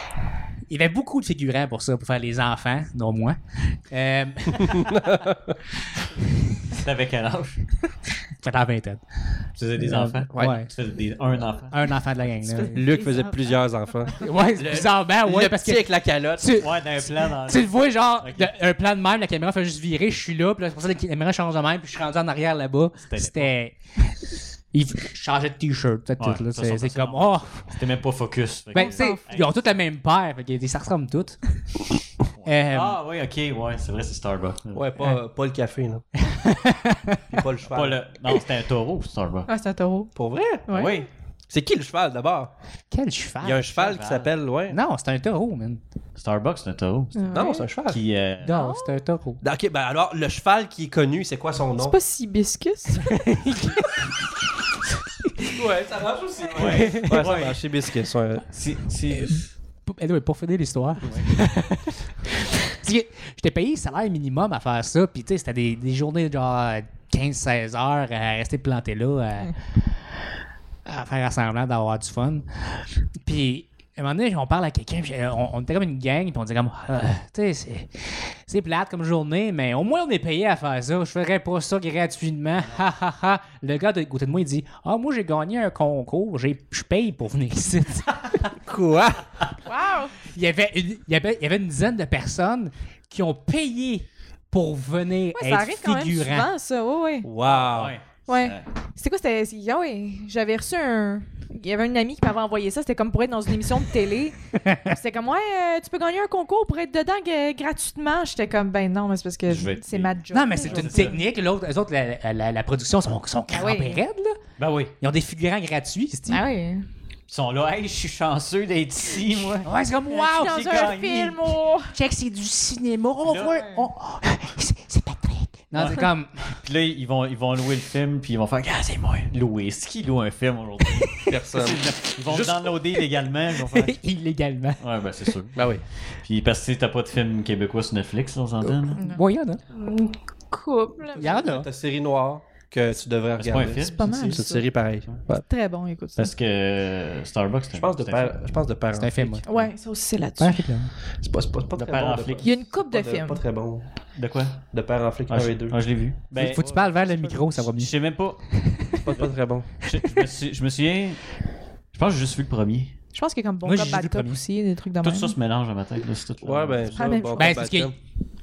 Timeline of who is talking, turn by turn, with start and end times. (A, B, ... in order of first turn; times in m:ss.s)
0:00.7-0:03.4 A
0:03.9-0:04.9 A
0:04.7-0:05.6 B
0:06.7-0:07.6 C
0:08.4-0:09.0 A
0:09.6-0:11.8 C
0:09.8-0:10.7 A
0:10.3-0:10.6 B
0:11.7-0:12.9 A
0:12.5-0:13.5 D
0:12.7-0:16.6 B
0:14.2-0:27.7 A
0:16.6-0:18.5 C
0:23.0-0:23.5 C
0:26.2-0:29.5 C
0:28.7-0:31.4 A
0:28.8-0:29.2 D
0:32.3-0:34.9 C
0:32.4-0:33.0 A
0:34.8-0:36.1 B
0:36.2-0:37.2 A
0:37.3-0:38.0 B
0:37.6-0:39.5 C
0:39.5-0:40.1 D
0:40.2-0:40.7 B
0:40.7-0:41.1 D
0:40.7-0:41.1 C
0:41.5-0:42.5 B
0:42.9-0:43.6 A
0:43.4-0:44.8 B
0:43.7-0:44.3 C
0:44.7-0:45.8 A
0:46.2-0:48.6 C
0:47.2-0:47.7 D
0:47.3-0:48.0 B
0:48.4-0:49.4 A
0:48.5-0:49.0 D
0:49.4-0:52.0 B
0:51.8-0:53.2 D
0:53.1-0:53.9 A
0:55.5-0:58.5 B
0:56.5-0:57.6 C
0:56.7-0:57.2 A
0:58.5-0:59.5 C
0:59.1-1:10.0 A
1:01.0-1:01.3 C
1:10.9-1:12.6 A
1:13.2-1:28.2 A
1:28.7-1:29.3 B
1:29.7-1:30.2 D
1:30.3-1:36.5 A
1:35.4-1:37.3 D
1:37.2-1:38.0 B
1:37.4-1:38.7 C
1:38.3-1:51.2 D
1:44.6-1:44.9 A
1:49.5-1:51.2 C
1:50.3-1:54.4 A
1:53.5-1:54.0 D
1:54.6-1:54.9 C
1:55.0-1:56.4 A
1:56.3-1:56.9 D
1:57.3-2:01.6 C
1:59.6-2:00.9 A
2:00.3-2:02.0 D
2:01.9-2:06.6 A
2:03.2-2:03.6 C
2:03.6-2:03.8 D
2:05.7-2:14.0 C
2:11.3-2:12.7 B
2:13.7-2:14.8 A
2:14.8-2:19.1 C
2:15.6-2:15.8 B
2:18.9-2:21.4 D
2:19.0-2:19.6 A
2:21.2-2:25.4 B
2:21.2-2:21.7 A
2:23.4-2:24.4 C
2:23.9-2:24.7 D
2:25.5-2:26.3 D
2:26.2-2:28.3 C
2:27.7-2:29.6 B
2:29.0-2:29.4 A
2:29.5-2:30.7 D
2:30.4-2:30.9 A
2:31.2-2:33.8 B
2:31.8-2:32.6 C
2:32.4-2:33.4 D
2:34.2-2:34.7 C
2:34.7-2:35.8 B
2:35.3-2:42.9 C
2:36.4-2:38.0 A
2:36.4-2:37.5 B
2:38.5-2:39.0 A
2:39.0-2:39.7 B
2:43.1-2:45.4 D
2:43.6-2:44.4 A
2:45.0-2:47.0 C
2:46.4-2:47.9 B
2:46.9-2:47.5 D
2:47.4-2:47.9 A